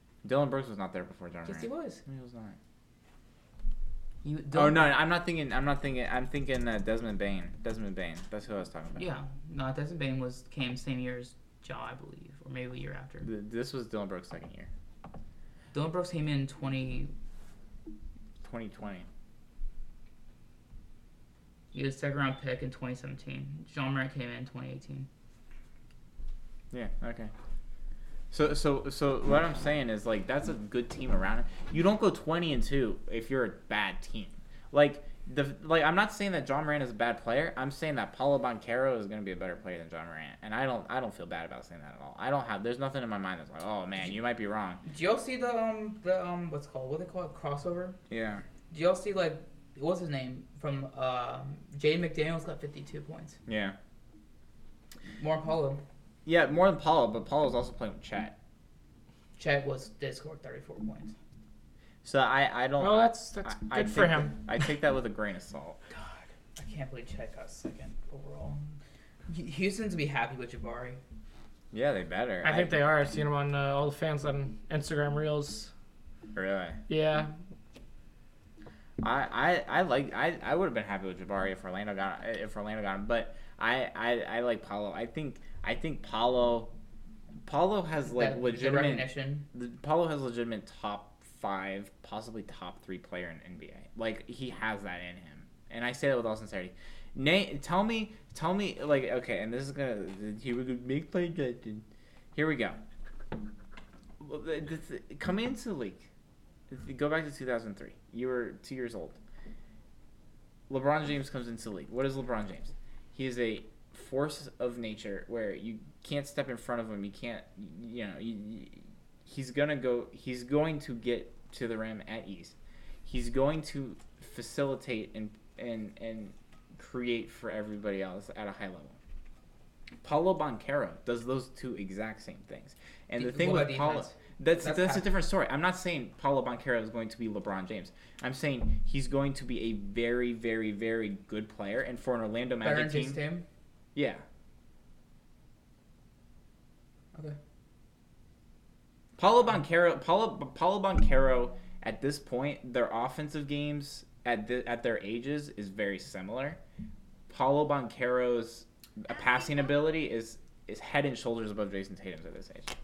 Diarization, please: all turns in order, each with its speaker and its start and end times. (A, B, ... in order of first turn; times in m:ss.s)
0:00.2-0:02.6 A
0:01.4-0:02.0 B
0:04.2-0:04.9 B
0:04.5-0:09.1 A
0:09.0-0:13.3 B
0:13.2-0:14.7 A
0:15.7-0:17.1 B
0:18.4-0:19.1 A
0:21.7-0:25.1 B
0:26.7-0:27.3 A
0:28.3-0:44.8 A
0:44.8-0:48.0 B
0:48.1-0:48.4 A
0:48.7-0:53.4 B
0:53.5-0:53.8 A
0:55.2-0:55.8 B
0:56.3-0:58.4 A
0:59.4-1:01.1 B
1:02.0-1:05.8 A
1:02.8-1:04.4 C
1:05.9-1:08.6 B
1:09.3-1:11.0 B
1:11.7-1:12.8 A
1:12.4-1:15.7 C
1:16.3-1:16.8 A
1:16.9-1:17.3 C
1:19.0-1:26.7 A
1:27.5-1:42.8 A
1:28.1-1:29.4 B
1:44.2-1:46.1 A
1:46.7-1:49.2 A
1:50.7-2:09.0 A
2:10.0-2:23.2 A
2:13.2-2:15.1 B
2:22.6-2:23.5 B
2:24.0-2:24.2 A
2:29.2-2:36.6 A
2:37.3-2:42.7 A